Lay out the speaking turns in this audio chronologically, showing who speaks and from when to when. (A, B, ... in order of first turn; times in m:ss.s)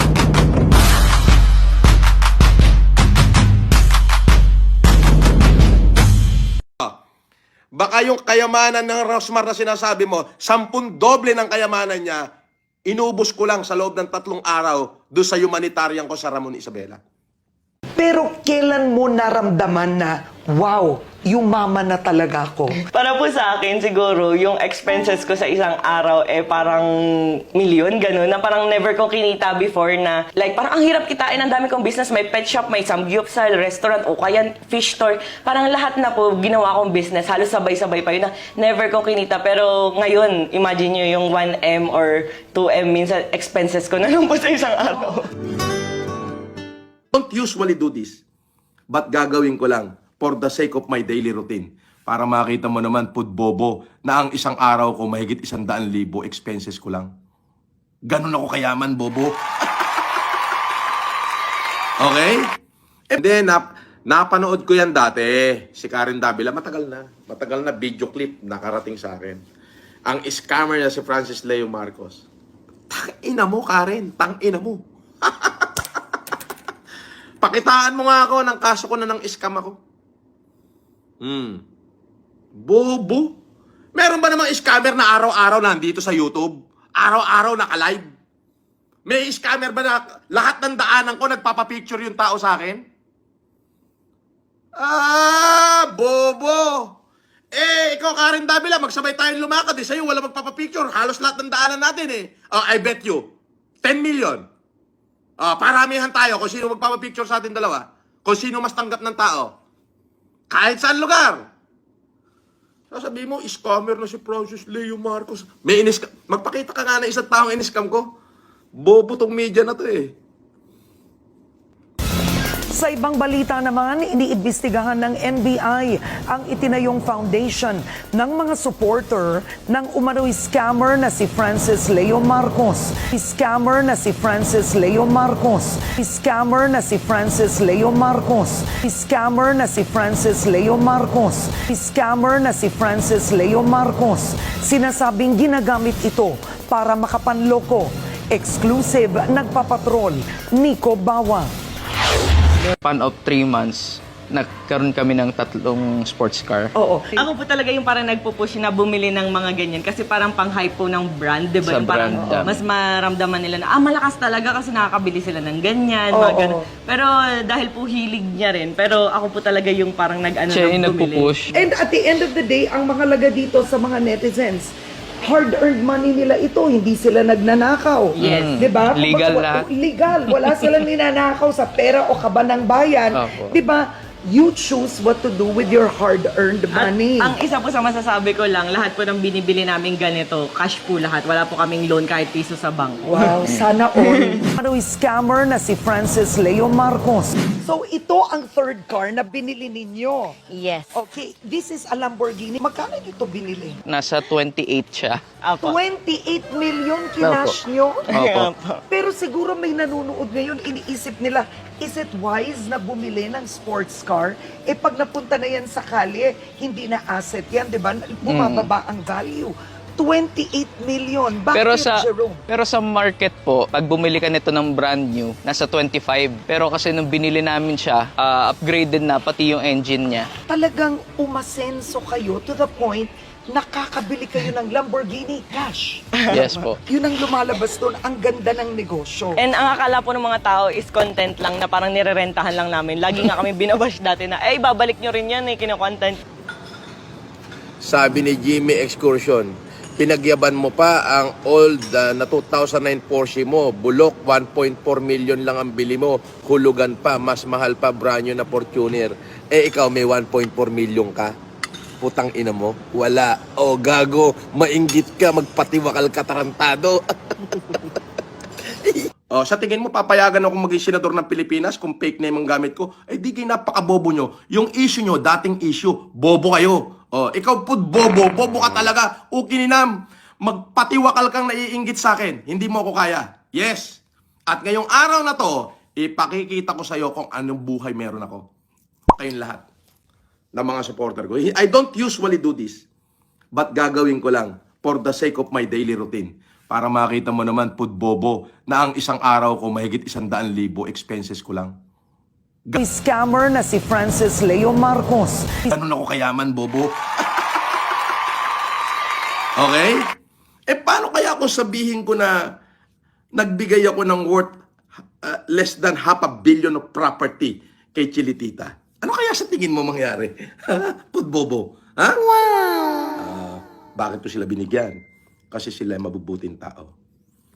0:07.7-0:12.2 A
0:12.9-0:17.0 A
0:18.0-0:22.8 B
0:22.8-0:26.9 C
0:27.5-0:45.3 C
0:47.1-0:48.2 A
0:48.9-0:57.1 A
0:58.1-0:59.6 A
1:02.0-1:02.5 A
1:03.1-1:09.4 A
1:10.1-1:12.2 A
1:12.9-1:15.7 A
1:17.4-1:19.8 A
1:21.2-1:21.6 A
1:22.6-1:23.3 A
1:24.0-1:28.0 A
1:29.0-1:32.8 A
1:34.8-1:36.9 A
1:37.5-1:43.2 A
1:43.8-1:44.4 A
1:45.4-1:49.5 A
1:50.5-1:51.4 A
1:52.9-1:58.1 A
1:58.8-2:00.1 A
2:02.7-2:31.5 B
2:32.8-2:36.7 D
2:36.7-2:37.3 B
2:37.2-2:51.5 C
2:41.6-2:42.5 D
2:42.2-2:42.6 B
2:46.1-2:46.6 B
2:50.5-2:51.5 D
2:51.5-2:54.7 B
2:55.2-3:07.4 B
2:58.2-2:58.5 C
2:58.2-2:59.6 D
3:03.1-3:03.6 D
3:06.7-3:13.4 C
3:13.0-3:20.4 B
3:14.0-3:14.4 C
3:20.5-3:20.9 C
3:20.9-3:23.8 B
3:23.9-3:25.2 D
3:25.4-3:25.8 C
3:25.6-3:28.1 B
3:27.2-3:27.6 D
3:28.1-3:28.5 D
3:28.1-3:28.8 C
3:28.9-3:42.4 B
3:38.3-3:38.7 D
3:41.5-3:50.3 D
3:50.5-3:59.4 B
3:56.3-3:56.8 D
3:59.4-4:06.2 C
4:07.8-4:21.3 A
4:22.0-4:27.9 A
4:28.8-4:48.4 A
4:49.1-4:49.6 A
4:50.5-4:52.8 A
4:53.5-5:01.7 A
5:02.8-5:05.7 B
5:05.7-5:07.6 A
5:09.6-5:10.1 A
5:10.7-5:12.4 A
5:13.3-5:14.5 A
5:15.2-5:22.3 A
5:23.2-5:25.0 A
5:25.5-5:26.9 A